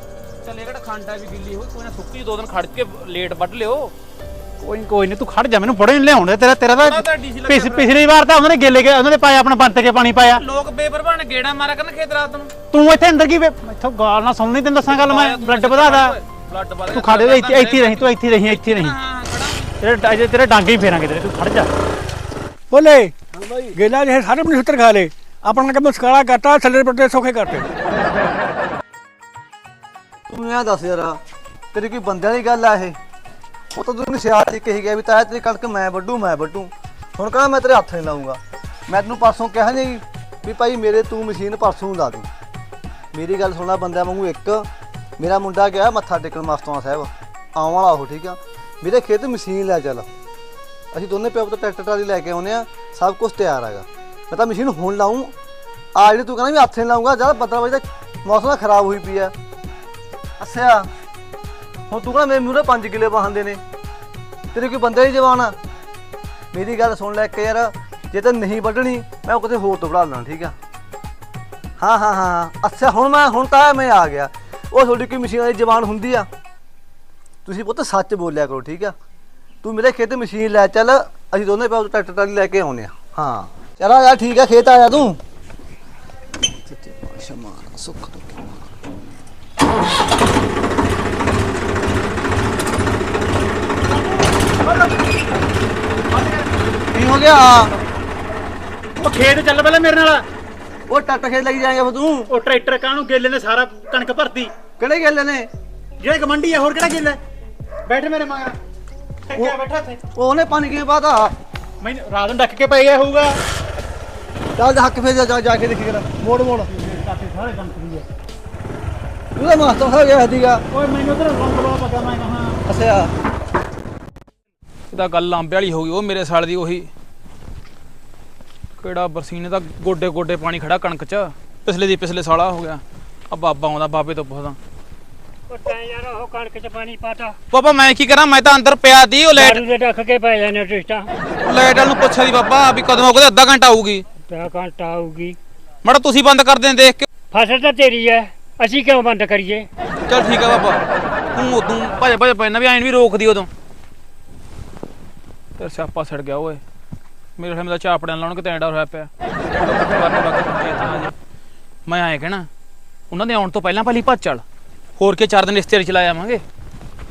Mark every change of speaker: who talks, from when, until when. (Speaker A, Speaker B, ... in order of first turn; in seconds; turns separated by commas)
Speaker A: 0.4-3.9, Speaker B: 4.6-10.4, Speaker A: 6.8-7.9, Speaker A: 10.3-12.5, Speaker B: 12.7-16.1, Speaker A: 14.9-19.7, Speaker B: 16.9-18.9, Speaker B: 19.8-21.7, Speaker C: 22.7-23.1, Speaker D: 23.3-23.8, Speaker C: 23.8-27.6, Speaker D: 30.3-31.2, Speaker D: 31.7-33.0, Speaker D: 33.7-42.3, Speaker D: 43.1-44.7, Speaker D: 45.2-50.1, Speaker D: 50.9-55.3, Speaker D: 56.0-59.3, Speaker D: 60.4-60.9, Speaker D: 61.9-63.6, Speaker D: 64.5-65.5, Speaker D: 66.5-70.5, Speaker D: 71.8-76.3, Speaker D: 77.4-78.9, Speaker D: 79.6-85.2, Speaker D: 86.5-88.6, Speaker B: 94.0-95.0, Speaker B: 96.1-96.5, Speaker D: 96.9-97.7, Speaker B: 99.0-100.2, Speaker D: 100.9-102.3, Speaker B: 102.3-104.5, Speaker D: 104.8-105.5, Speaker B: 106.0-107.2, Speaker B: 107.9-108.5, Speaker B: 109.3-110.0, Speaker D: 110.1-111.3, Speaker B: 111.8-113.3, Speaker D: 114.6-116.7, Speaker B: 116.7-118.0, Speaker D: 119.3-120.6, Speaker B: 120.7-122.6, Speaker D: 122.7-123.1, Speaker A: 124.9-126.9, Speaker A: 128.8-134.6, Speaker E: 135.5-137.3, Speaker A: 137.5-139.7, Speaker E: 139.4-141.1, Speaker A: 141.4-144.0, Speaker E: 144.3-145.4, Speaker A: 145.8-147.1, Speaker E: 147.3-149.7, Speaker A: 150.1-150.8, Speaker A: 151.3-153.5, Speaker A: 155.6-156.6, Speaker A: 157.4-161.1, Speaker A: 161.9-162.5, Speaker A: 163.1-164.4, Speaker A: 165.0-166.4